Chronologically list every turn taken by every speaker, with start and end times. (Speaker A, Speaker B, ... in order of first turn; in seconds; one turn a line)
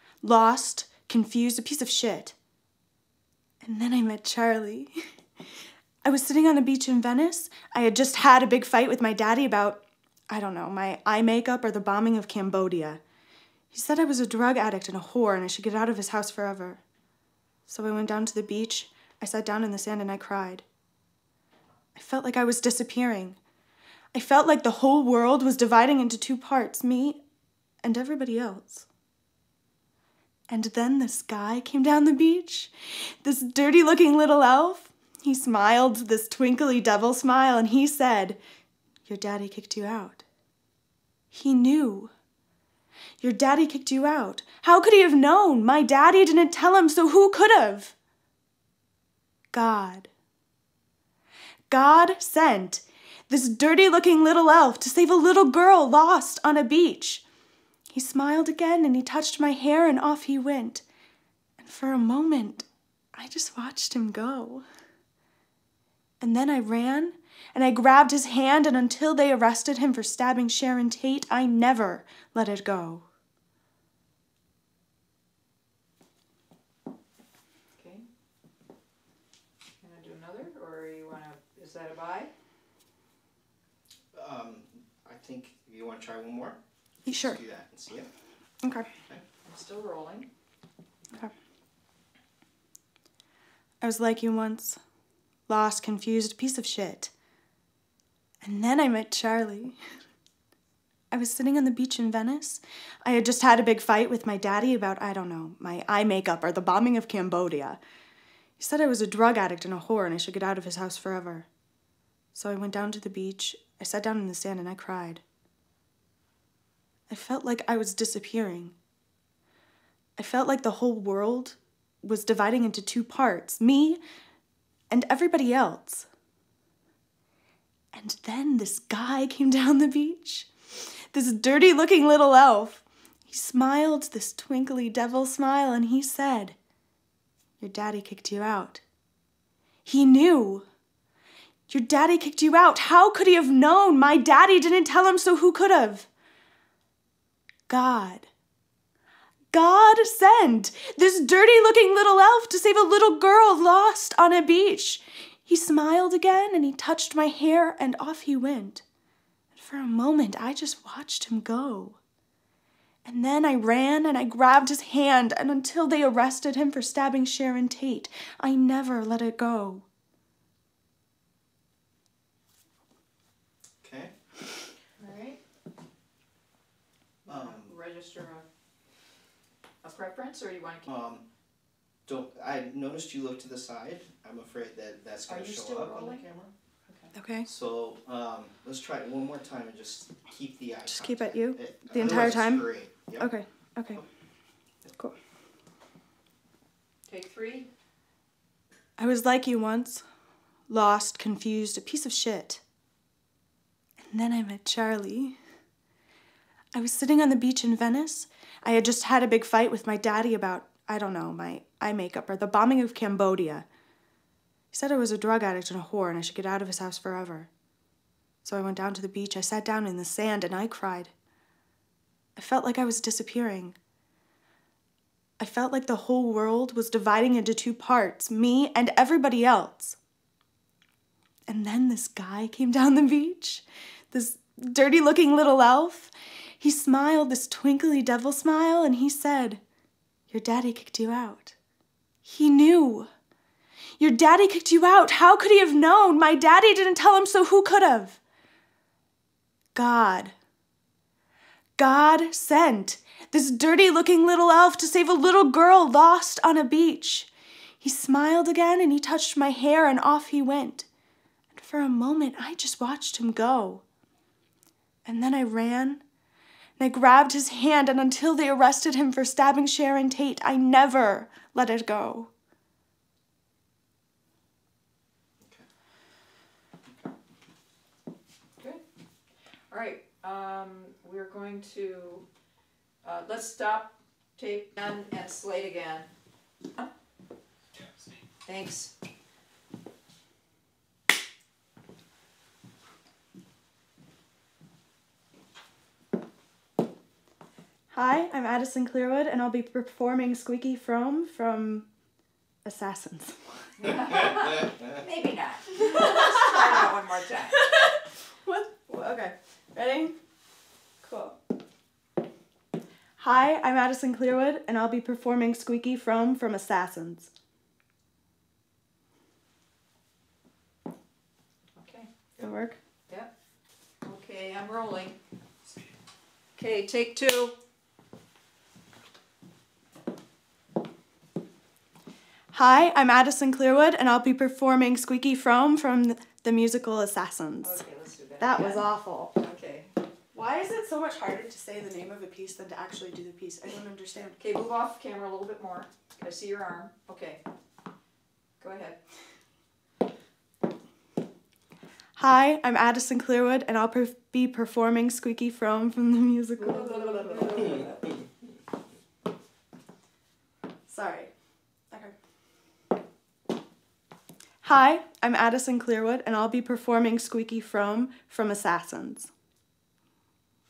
Speaker A: 0.2-2.3
Speaker A: 3.6-5.0
Speaker A: 6.0-13.0
Speaker A: 13.7-16.8
Speaker A: 17.7-20.6
Speaker A: 21.9-23.4
Speaker A: 24.1-27.2
Speaker A: 27.8-28.9
Speaker A: 30.5-38.4
Speaker A: 39.0-40.2
Speaker A: 41.3-42.1
Speaker A: 43.2-47.9
Speaker A: 49.5-50.1
Speaker A: 51.7-57.2
Speaker A: 57.9-60.8
Speaker A: 61.6-64.6
Speaker A: 66.2-73.0
Speaker B: 77.7-78.0
Speaker B: 79.8-82.3
Speaker C: 84.1-88.1
Speaker A: 87.0-87.4
Speaker A: 88.6-88.9
Speaker B: 89.4-90.3
Speaker A: 93.8-94.8
Speaker A: 95.5-97.1
Speaker A: 98.4-99.8
Speaker A: 101.1-107.8
Speaker A: 108.6-111.5
Speaker A: 112.3-115.2
Speaker A: 117.1-118.7
Speaker A: 120.2-124.0
Speaker A: 124.9-126.1
Speaker A: 127.9-130.5
Speaker A: 131.1-136.6
Speaker A: 137.6-138.8
Speaker A: 139.8-140.6
Speaker A: 141.7-146.1
Speaker A: 147.7-148.3
Speaker A: 149.5-158.8
Speaker A: 159.5-162.0
Speaker A: 163.0-169.8
Speaker C: 173.8-174.1
Speaker B: 175.0-175.4
Speaker B: 177.2-178.4
Speaker C: 177.2-177.8
Speaker B: 179.8-180.9
Speaker C: 180.8-181.2
Speaker C: 182.1-186.5
Speaker B: 185.3-186.2
Speaker B: 186.8-187.1
Speaker A: 187.1-187.5
Speaker C: 187.4-193.3
Speaker A: 190.9-194.0
Speaker B: 197.1-197.7
Speaker A: 199.0-200.0
Speaker A: 200.7-202.6
Speaker A: 204.0-205.3
Speaker A: 206.7-213.7
Speaker A: 214.7-217.5
Speaker A: 218.4-221.1
Speaker A: 222.3-223.8
Speaker A: 225.4-229.9
Speaker A: 231.5-239.6
Speaker A: 240.3-241.5
Speaker A: 242.2-243.1
Speaker A: 244.0-248.2
Speaker A: 249.7-250.3
Speaker A: 251.8-257.3
Speaker A: 257.8-260.9
Speaker A: 261.5-263.8
Speaker A: 265.0-266.0
Speaker A: 266.8-272.3
Speaker B: 279.7-282.2
Speaker B: 283.0-286.1
Speaker B: 288.4-288.9
Speaker A: 297.9-301.9
Speaker A: 302.6-303.4
Speaker B: 303.8-307.6
Speaker A: 307.6-310.1
Speaker A: 311.0-311.4
Speaker A: 313.2-317.3
Speaker B: 321.7-322.1
Speaker A: 322.4-322.8
Speaker B: 324.0-325.2
Speaker B: 326.6-327.5
Speaker A: 332.5-337.8
Speaker B: 337.6-339.9
Speaker A: 338.4-339.3
Speaker A: 340.3-344.4
Speaker B: 344.4-347.4
Speaker B: 348.6-349.0
Speaker A: 352.2-357.5
Speaker B: 356.6-358.1
Speaker A: 360.9-361.3
Speaker A: 364.6-369.3